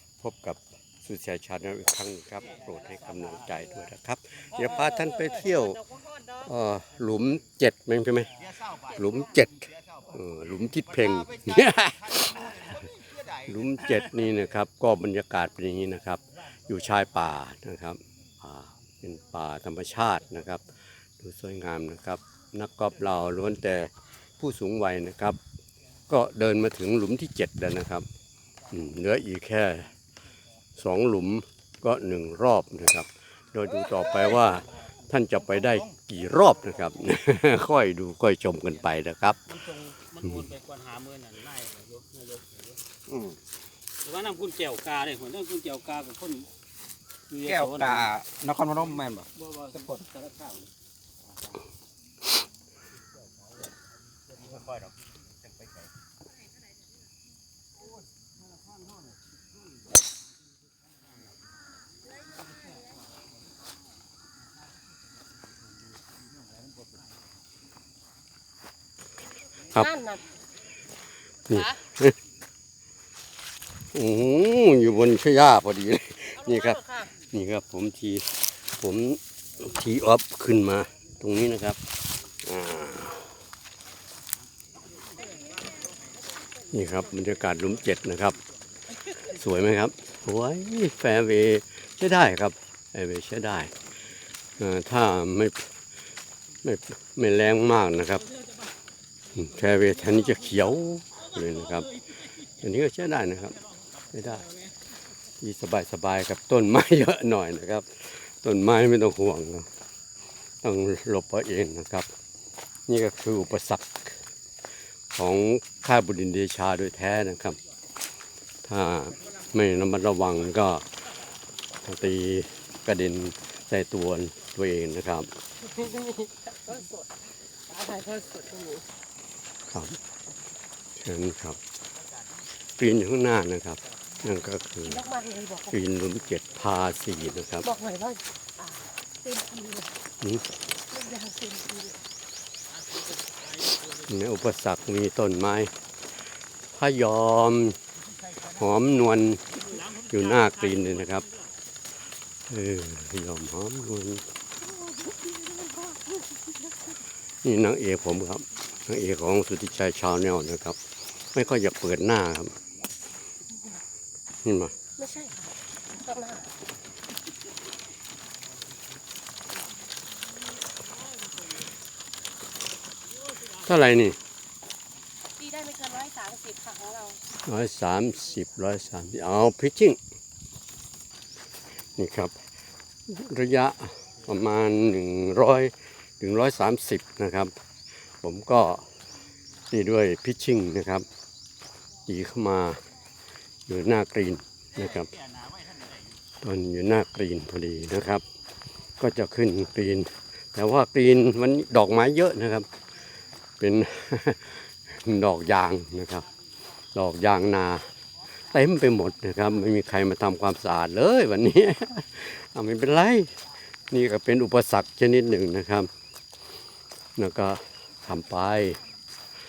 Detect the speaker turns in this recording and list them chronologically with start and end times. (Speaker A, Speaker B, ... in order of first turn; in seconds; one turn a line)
Speaker A: 0.2-20.6
Speaker B: 6.0-6.2
Speaker C: 8.4-10.0
Speaker C: 11.2-11.6
Speaker C: 12.2-13.5
Speaker A: 21.2-25.4
Speaker A: 26.1-28.1
Speaker A: 28.7-29.9
Speaker A: 30.8-39.4
Speaker D: 39.5-42.8
Speaker D: 44.0-46.5
Speaker D: 47.3-48.1
Speaker C: 47.5-50.0
Speaker D: 49.3-50.6
Speaker C: 54.4-55.9
Speaker B: 69.7-70.3
Speaker A: 71.5-72.2
Speaker A: 73.9-81.8
Speaker B: 76.4-77.1
Speaker A: 82.4-83.3
Speaker A: 86.7-88.4
Speaker A: 89.1-93.7
Speaker A: 94.6-95.7
Speaker A: 96.6-98.3
Speaker A: 99.3-102.0
Speaker A: 102.6-103.6
Speaker A: 104.1-104.5
Speaker A: 105.4-109.7
Speaker A: 110.6-112.1
Speaker A: 112.9-114.2
Speaker A: 115.1-117.6
Speaker A: 118.6-120.8
Speaker A: 121.8-125.3
Speaker B: 125.7-128.8
Speaker A: 129.7-130.0
Speaker A: 131.0-131.6
Speaker A: 132.8-135.1
Speaker B: 134.9-135.8
Speaker A: 135.7-137.7
Speaker B: 137.6-140.0
Speaker B: 140.8-142.0
Speaker D: 142.9-143.9
Speaker A: 143.9-145.7
Speaker A: 146.7-147.8
Speaker A: 148.4-151.3
Speaker D: 149.8-150.1
Speaker A: 152.5-154.3
Speaker B: 154.8-156.5
Speaker A: 157.4-160.8
Speaker A: 161.3-162.5
Speaker A: 164.4-164.7
Speaker B: 164.9-166.5
Speaker A: 173.5-174.2
Speaker B: 175.4-177.2
Speaker A: 177.4-180.0
Speaker A: 182.0-182.3
Speaker A: 183.1-187.5
Speaker A: 188.2-188.8
Speaker A: 189.7-191.1
Speaker A: 192.1-192.8
Speaker A: 193.7-195.1
Speaker D: 195.2-195.7
Speaker C: 195.4-196.0
Speaker A: 196.4-198.2
Speaker A: 199.0-202.7
Speaker A: 203.6-206.3
Speaker A: 206.9-207.9
Speaker A: 208.5-213.3
Speaker A: 213.9-215.9
Speaker A: 217.2-218.8